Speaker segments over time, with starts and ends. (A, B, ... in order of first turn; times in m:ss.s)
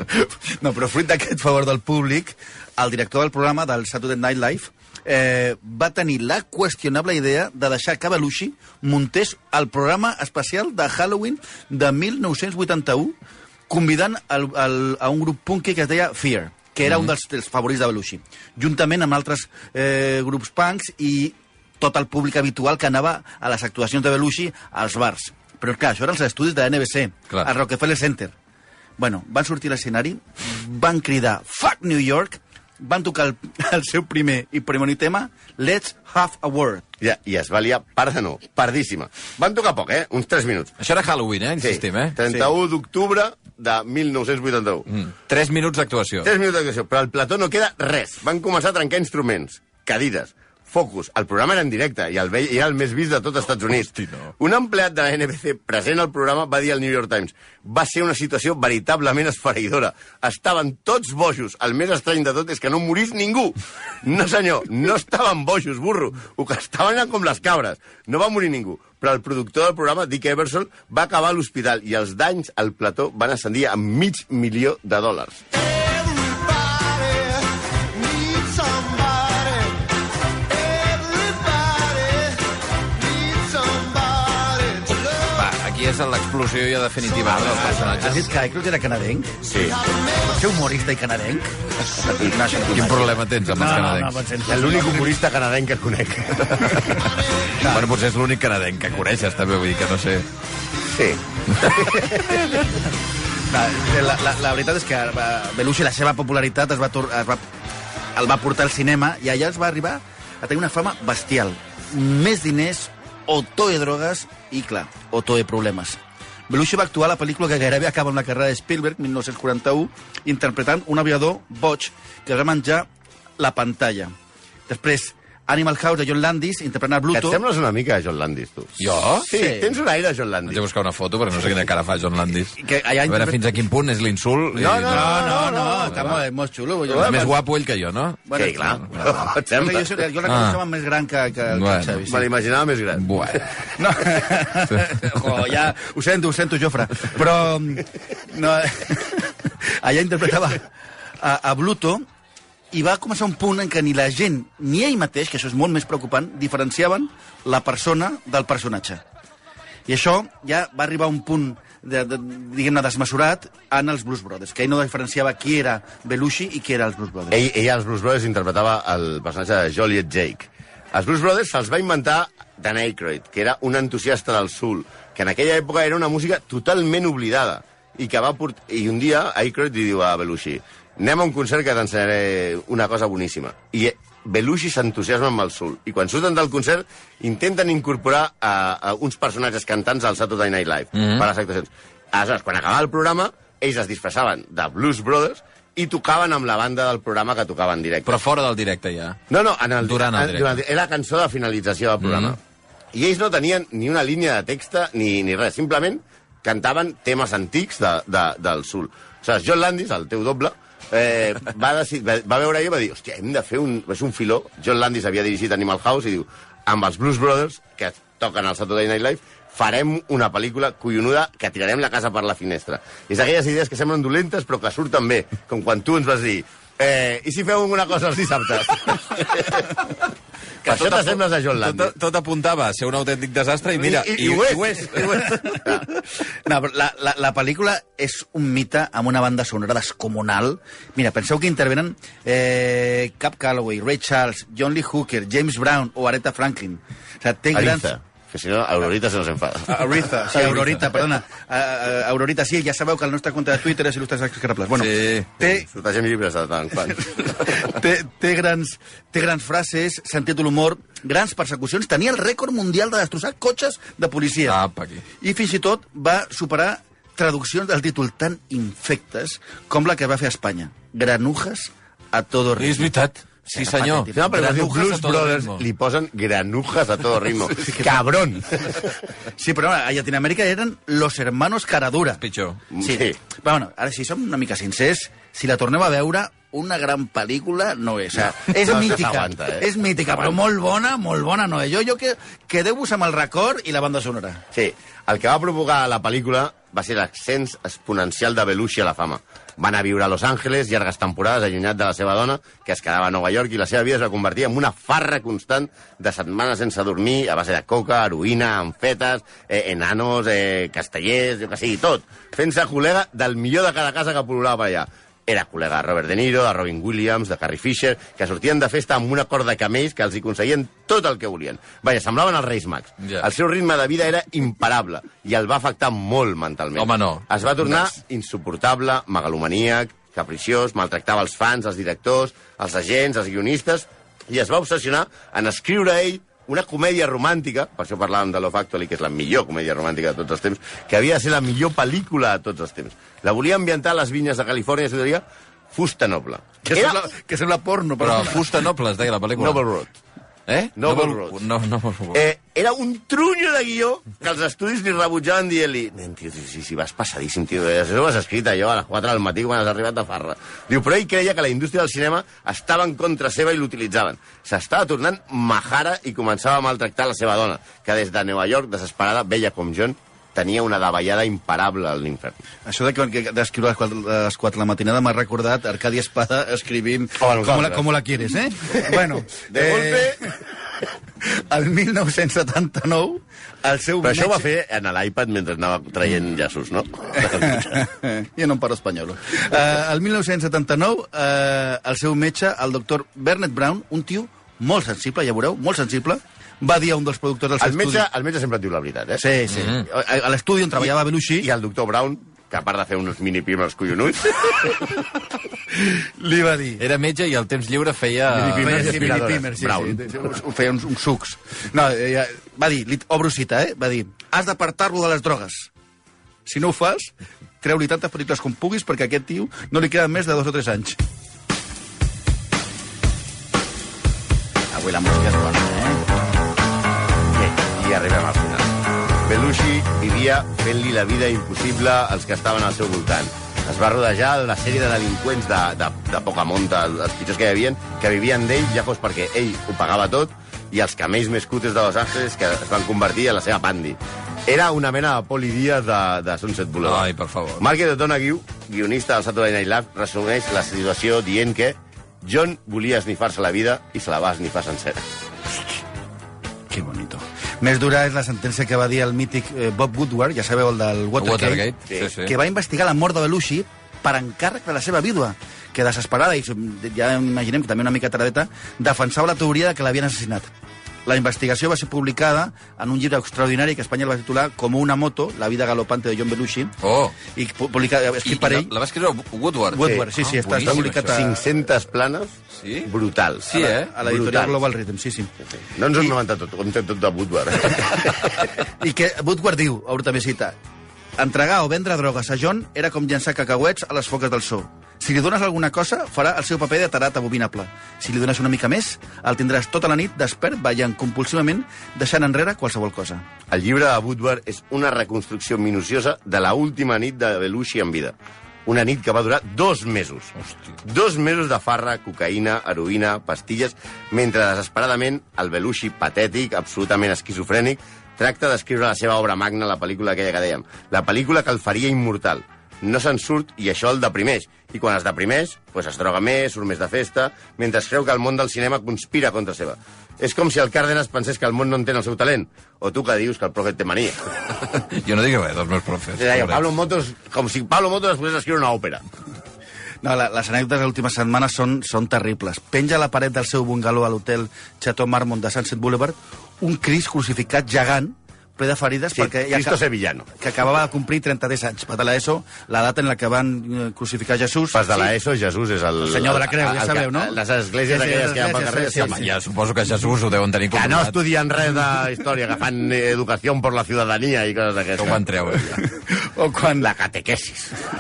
0:00.1-0:13.2 A
0:13.7-0:28.3 A
0:29.0-0:36.8 A
0:37.0-0:40.7 B
0:40.8-0:42.2 C
0:41.6-0:44.9 B
0:44.9-0:46.3 C
0:46.2-1:15.4 B
1:16.2-1:17.4 B
1:18.0-1:19.8 B
1:20.8-1:22.3 B
1:21.0-1:21.7 A
1:23.4-1:23.9 B
1:23.6-1:24.8 A
1:25.3-1:28.3 C
1:27.2-1:27.8 B
1:27.7-1:29.4 A
1:29.4-1:29.8 B
1:30.0-1:35.2 A
1:32.7-1:34.2 C
1:34.4-1:37.0 B
1:37.6-1:37.9 A
1:37.6-1:40.3 C
1:40.9-1:42.4 B
1:41.5-1:41.8 C
1:43.5-1:47.4 A
1:48.2-2:02.9 A
2:03.4-2:04.1 A
2:04.7-2:07.4 A
2:07.1-2:10.6 B
2:08.8-2:09.3 C
2:09.3-2:09.7 A
2:10.5-2:15.3 C
2:12.6-2:13.4 A
2:14.5-2:16.2 B
2:14.9-2:17.3 A
2:15.9-2:16.1 C
2:16.9-2:17.3 B
2:16.9-2:19.1 C
2:18.3-2:22.3 A
2:18.3-2:20.0 B
2:20.2-2:20.6 C
2:21.5-2:22.0 C
2:22.0-2:23.4 B
2:22.9-2:23.5 C
2:23.8-2:30.7 A
2:31.2-2:32.0 A
2:32.7-2:39.0 A
2:39.9-2:47.4 A
2:47.3-3:18.2 B
3:10.9-3:11.3 C
3:18.0-3:19.2 C
3:19.3-3:22.4 B
3:19.8-3:20.6 C
3:22.0-3:22.4 C
3:22.9-3:49.8 B
3:50.6-3:51.9 B
3:50.7-3:55.3 C
3:53.8-3:55.8 B
3:56.4-4:07.9 A
4:07.5-4:09.9 B
4:09.7-4:15.6 A
4:14.8-4:15.3 C
4:15.4-4:17.4 B
4:17.2-4:24.6 A
4:24.4-4:25.0 C
4:25.2-4:32.9 A
4:32.6-4:35.6 C
4:33.5-4:34.4 A
4:34.1-4:39.0 B
4:37.6-4:38.0 A
4:39.4-4:42.2 A
4:42.2-4:42.6 C
4:42.7-4:43.2 B
4:42.8-4:54.4 A
4:48.2-4:50.4 B
4:54.5-5:47.0 B
5:26.8-5:27.8 C
5:46.6-5:48.5 A
5:48.0-5:49.6 C
5:49.4-5:49.9 B
5:50.5-5:52.2 C
5:50.8-5:51.4 B
5:52.1-6:12.4 B
6:12.6-6:20.3 A
6:17.2-6:17.8 B
6:18.7-6:20.3 B
6:21.2-6:24.4 A
6:24.0-6:27.8 B
6:27.1-6:38.0 A
6:37.6-6:39.2 B
6:39.2-6:41.5 A
6:39.6-6:39.8 C
6:40.8-6:44.7 B
6:45.9-6:46.8 A
6:46.8-6:49.2 C
6:48.3-6:50.1 B
6:48.6-6:55.7 A
6:56.4-7:01.0 A
7:04.7-7:06.0 A
7:07.3-7:08.7 B
7:09.2-7:35.0 B
7:26.8-7:27.6 C
7:36.7-7:50.5 A
7:41.2-7:42.3 C
7:51.0-7:56.7 A
7:56.8-7:57.2 C
7:57.3-7:58.7 A
7:58.2-8:01.3 C
7:59.7-8:01.4 A
8:00.6-8:04.6 B
8:02.6-8:02.9 C
8:03.5-8:03.9 C
8:03.5-8:05.3 A
8:05.6-8:08.3 B
8:08.8-8:10.5 A
8:11.2-8:23.2 A
8:23.5-8:28.1 B
8:28.6-8:54.3 B
8:54.7-8:56.6 C
8:56.2-8:59.0 B
9:00.0-9:09.8 A
9:09.1-9:10.2 B
9:10.4-9:15.0 A
9:14.7-9:19.2 B
9:16.0-9:19.3 A
9:19.0-9:21.2 C
9:20.7-9:25.3 B
9:25.0-9:25.8 C
9:25.6-9:26.9 A
9:26.8-9:27.8 B